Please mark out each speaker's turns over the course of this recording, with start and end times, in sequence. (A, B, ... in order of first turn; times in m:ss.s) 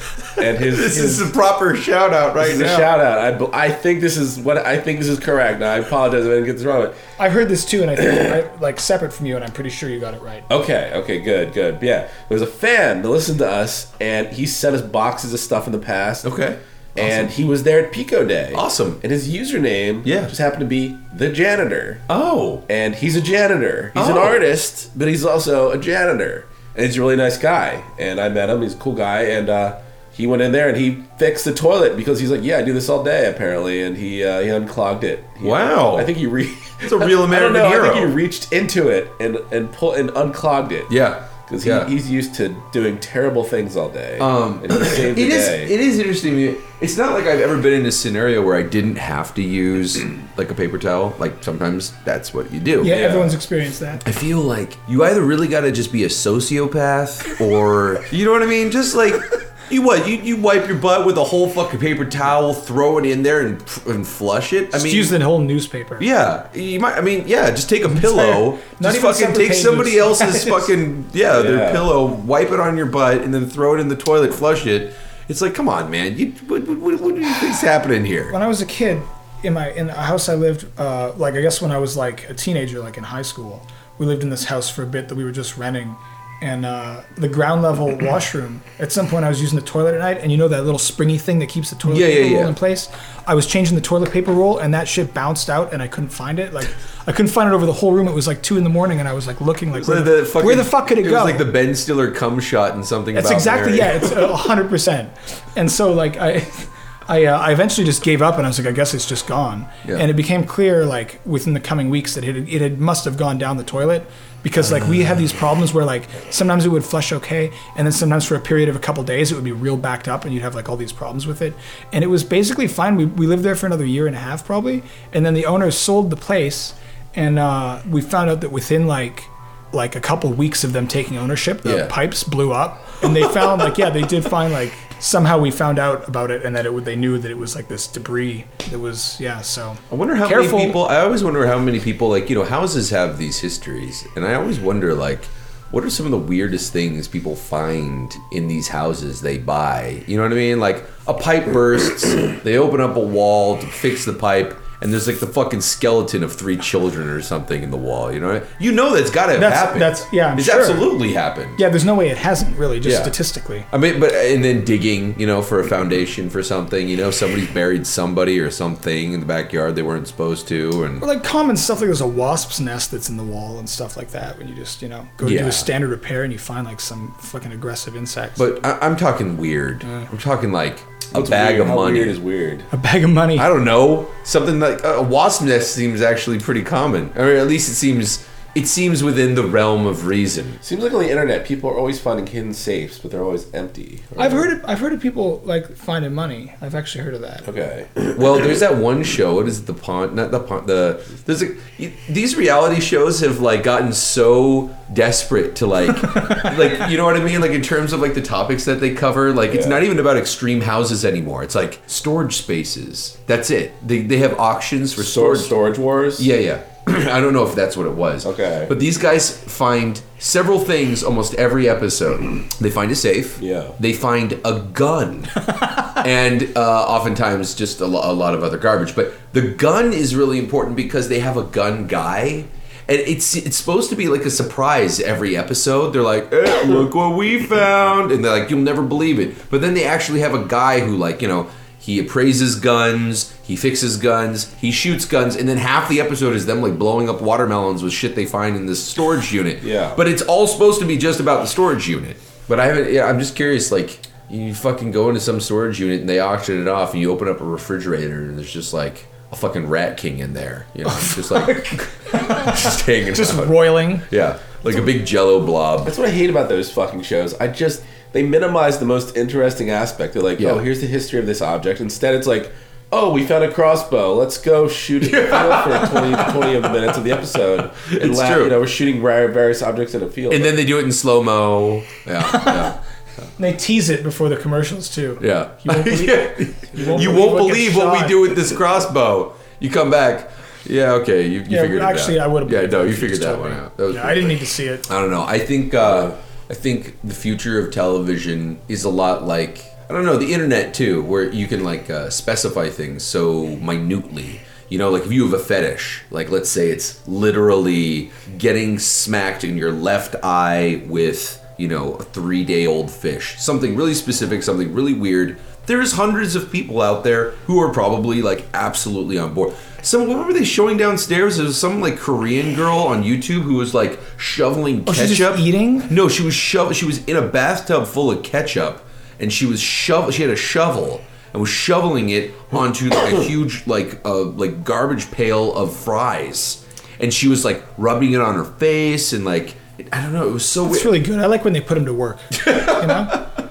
0:00.4-0:01.3 A
0:00.4-0:02.9 B
0:02.4-0:07.0 A
0:07.2-0:10.5 C
0:08.0-0:08.4 A
0:10.5-0:16.4 A
0:16.2-0:17.3 B
0:17.0-0:22.0 A
0:18.5-0:19.0 B
0:20.0-0:20.3 B
0:22.1-0:22.6 B
0:22.7-0:41.0 A
0:24.0-0:24.4 B
0:35.4-0:36.1 B
0:36.8-0:38.1 B
0:40.9-0:41.9 B
0:41.5-0:45.7 A
0:44.2-0:53.0 B
0:52.8-0:54.0 C
0:52.9-0:53.4 A
0:54.0-1:05.2 B
1:04.7-1:06.1 C
1:06.0-1:18.4 B
1:07.9-1:10.7 C
1:11.3-1:11.9 A
1:18.3-1:41.5 C
1:31.8-1:32.5 B
1:39.7-1:44.3 B
1:43.1-2:20.8 C
1:54.6-1:55.2 B
2:11.6-2:11.9 B
2:19.9-2:41.6 B
2:39.4-2:40.9 C
2:41.6-2:43.7 C
2:42.8-2:43.1 B
2:43.7-2:51.1 B
2:51.0-2:58.5 C
2:55.2-2:55.7 B
2:58.4-3:02.2 B
3:01.1-3:02.7 A
3:02.7-3:03.5 C
3:03.4-3:10.6 B
3:10.6-3:14.5 A
3:14.2-3:17.5 C
3:17.4-3:18.6 A
3:18.1-3:35.5 B
3:29.5-3:29.8 A
3:35.0-3:36.3 A
3:36.2-4:25.9 B
3:38.2-3:38.7 A
3:43.4-3:43.8 A
4:09.6-4:10.0 A
4:21.0-4:24.1 C
4:25.8-4:40.6 A
4:30.4-4:30.6 B
4:35.0-4:36.8 B
4:37.8-4:38.6 B
4:40.3-4:42.8 B
4:42.2-4:42.8 C
4:43.4-4:48.2 C
4:45.2-5:40.9 B
4:51.5-4:54.9 C
5:24.9-5:25.9 C
5:40.6-5:43.3 C
5:42.4-5:43.2 B